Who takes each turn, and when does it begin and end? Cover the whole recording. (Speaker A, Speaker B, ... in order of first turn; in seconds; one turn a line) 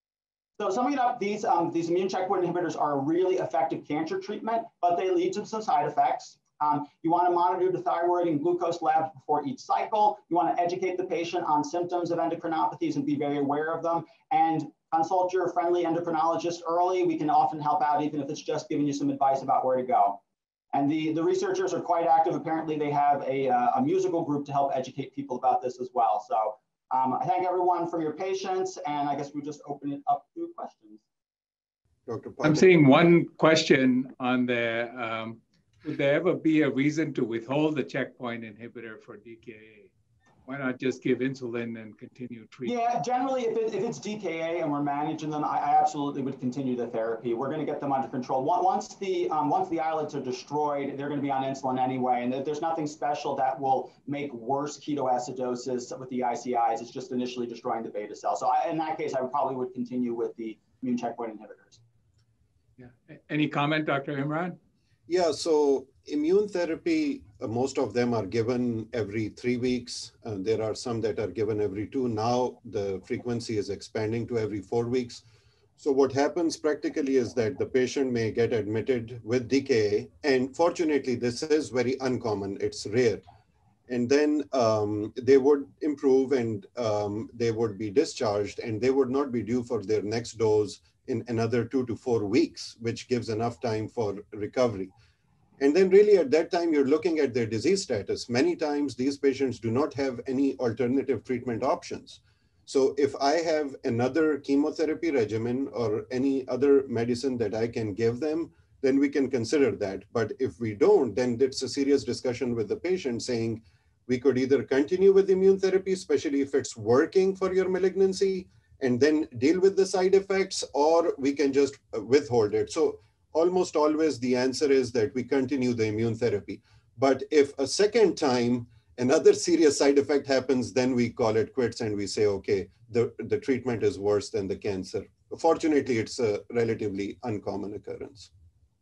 Speaker A: 0.6-20.2
Speaker A: 20.7-31.0
Speaker B: 32.1-32.7
Speaker C: 32.4-39.9
Speaker C: 40.5-42.8
Speaker A: 42.7-61.8
Speaker C: 62.8-64.6
Speaker B: 65.1-75.2
Speaker B: 75.8-83.2
Speaker B: 83.9-94.9
Speaker B: 95.6-138.3